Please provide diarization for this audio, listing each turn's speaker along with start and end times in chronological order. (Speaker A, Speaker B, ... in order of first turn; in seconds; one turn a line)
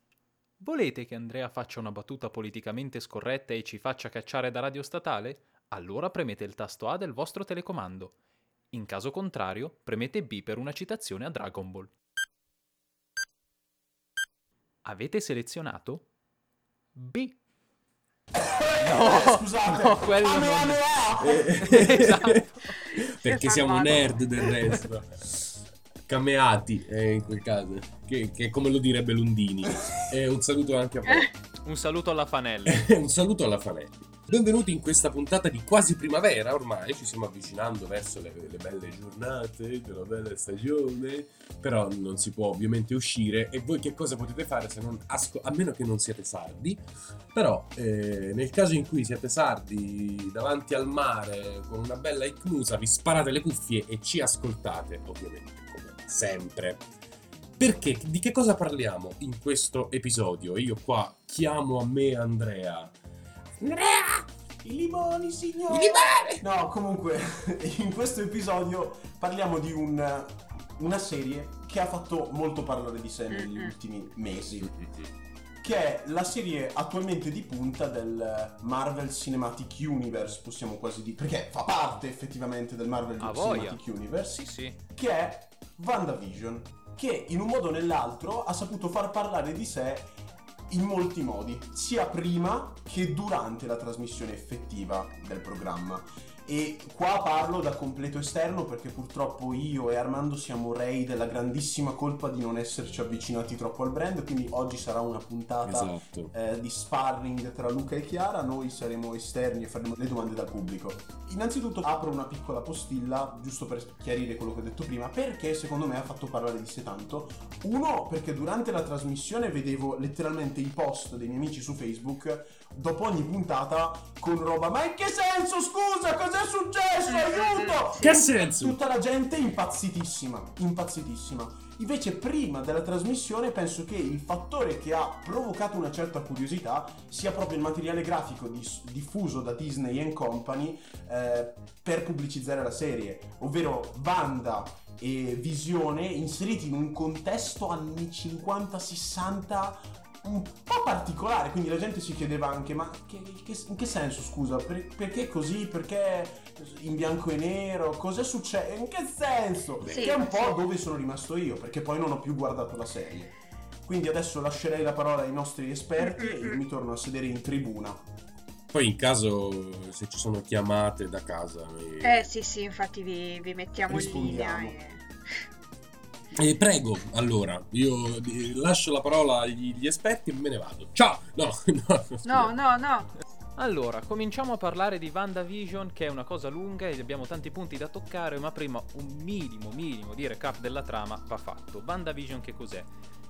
Speaker A: 0.6-8.1
Speaker A: 8.7-11.9
Speaker A: 14.8-16.1
Speaker A: 16.9-17.4
Speaker B: 18.3-22.2
Speaker A: 18.8-20.9
Speaker C: 21.2-22.4
Speaker A: 21.6-22.8
Speaker D: 22.9-24.5
Speaker C: 22.9-31.3
Speaker A: 31.6-32.9
Speaker C: 32.6-46.8
Speaker C: 47.3-56.8
Speaker C: 57.6-62.9
Speaker C: 63.6-64.3
Speaker B: 64.6-74.8
Speaker C: 65.7-66.4
Speaker D: 73.3-73.7
Speaker C: 74.6-75.1
Speaker B: 75.6-90.1
Speaker A: 83.2-83.8
Speaker A: 84.3-84.8
Speaker B: 90.7-163.3
Speaker C: 105.6-106.3
Speaker D: 127.1-128.2
Speaker C: 128.0-128.8
Speaker C: 159.8-160.2
Speaker D: 159.9-160.6
Speaker B: 163.8-168.1
Speaker D: 166.0-166.6
Speaker C: 168.7-172.3
Speaker D: 172.0-175.1
Speaker C: 173.9-174.6
Speaker B: 173.9-174.7
Speaker C: 176.3-182.5
Speaker D: 182.2-183.1
Speaker A: 183.6-192.9